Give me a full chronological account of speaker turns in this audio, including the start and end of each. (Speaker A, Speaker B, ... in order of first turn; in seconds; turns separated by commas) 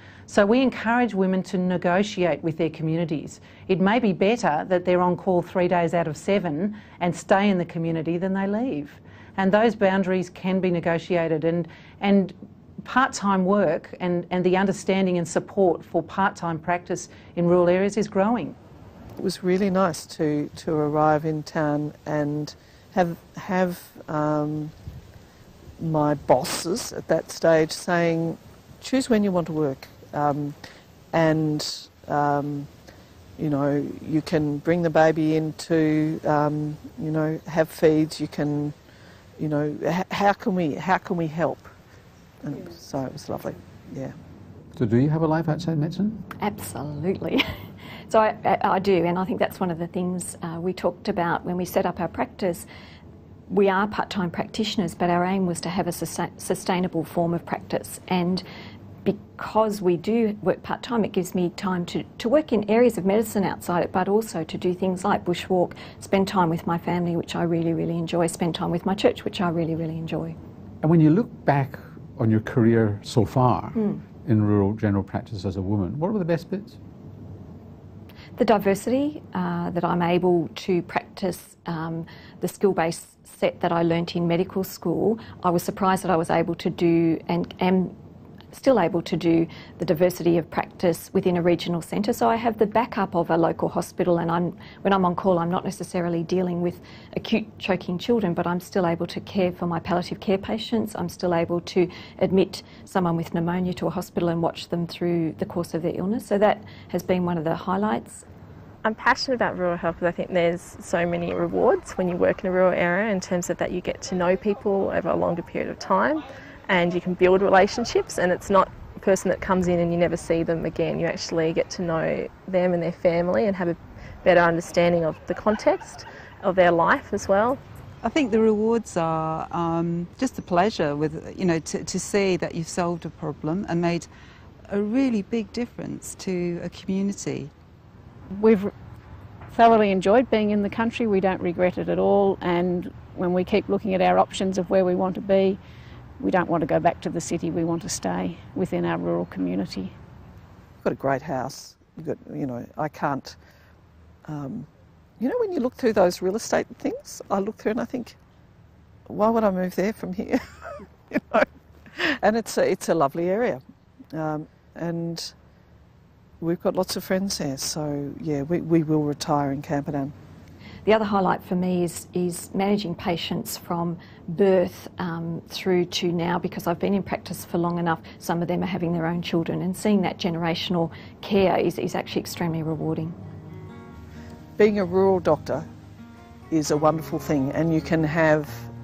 Speaker A: 0.3-18.6, Speaker B: 19.2-24.7, Speaker B: 25.8-30.6, Speaker B: 31.1-32.7, Speaker B: 33.4-38.7, Speaker B: 39.4-41.7, Speaker B: 42.4-44.1, Speaker C: 44.8-46.2, Speaker D: 46.4-47.5, Speaker D: 48.1-52.6, Speaker D: 53.5-58.4, Speaker D: 59.0-70.3, Speaker C: 70.8-76.8, Speaker D: 78.4-87.9, Speaker D: 88.5-108.2, Speaker E: 108.8-127.6, Speaker F: 128.0-134.1, Speaker F: 134.7-137.5, Speaker G: 138.3-138.7, Speaker G: 139.5-145.6, Speaker G: 146.2-149.9, Speaker B: 150.8-153.3, Speaker B: 154.2-154.7, Speaker B: 155.2-158.2, Speaker B: 159.1-165.3, Speaker B: 166.4-170.1, Speaker D: 170.8-183.1, Speaker B: 184.6-185.7, Speaker B: 186.5-188.7